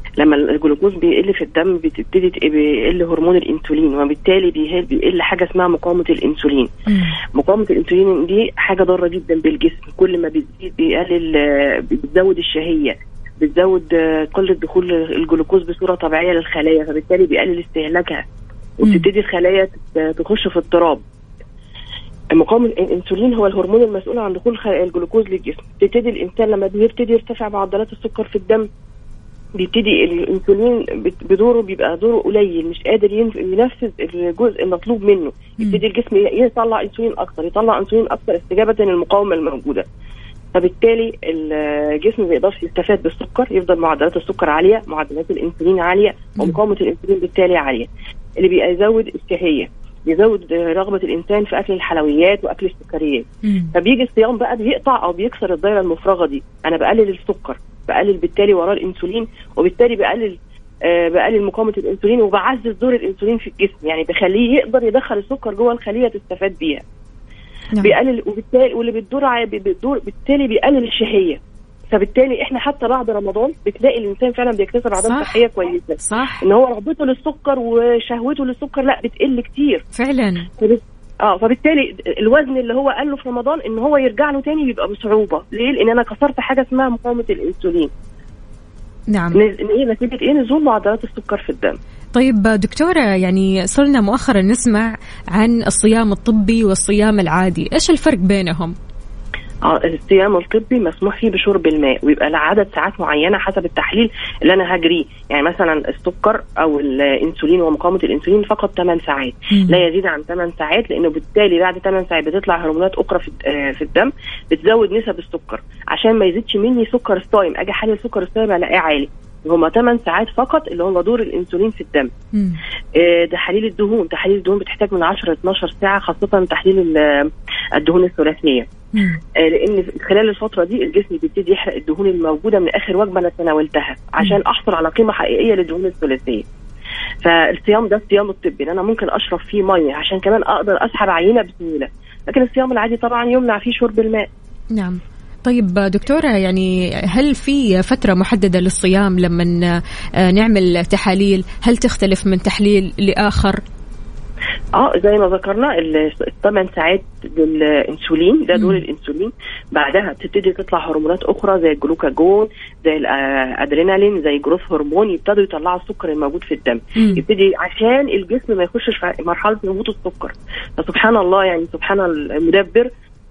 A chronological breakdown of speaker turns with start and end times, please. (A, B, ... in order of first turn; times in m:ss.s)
0:00.2-0:06.7 A
0:06.9-0:07.2 B
0:07.4-0:18.2 A
0:18.8-0:21.0 A
0:22.3-0:28.7 A
0:29.6-0:39.8 A
0:40.5-1:06.8 A
0:53.4-0:53.7 B
1:07.8-1:11.4 A
1:11.9-1:19.8 A
1:15.0-1:15.4 B
1:16.0-1:16.4 B
1:20.0-1:20.5 B
1:20.6-1:27.9 A
1:29.1-1:29.4 B
1:29.3-1:31.8 A
1:32.2-1:38.8 B
1:39.6-2:02.1 A
1:49.5-1:49.9 B
2:02.3-2:02.6 B
2:03.0-2:08.7 A
2:09.4-2:16.4 A
2:17.2-2:24.3 A
2:24.8-2:33.6 B
2:34.8-2:52.9 A
2:38.6-2:38.8 B
2:47.0-2:47.2 B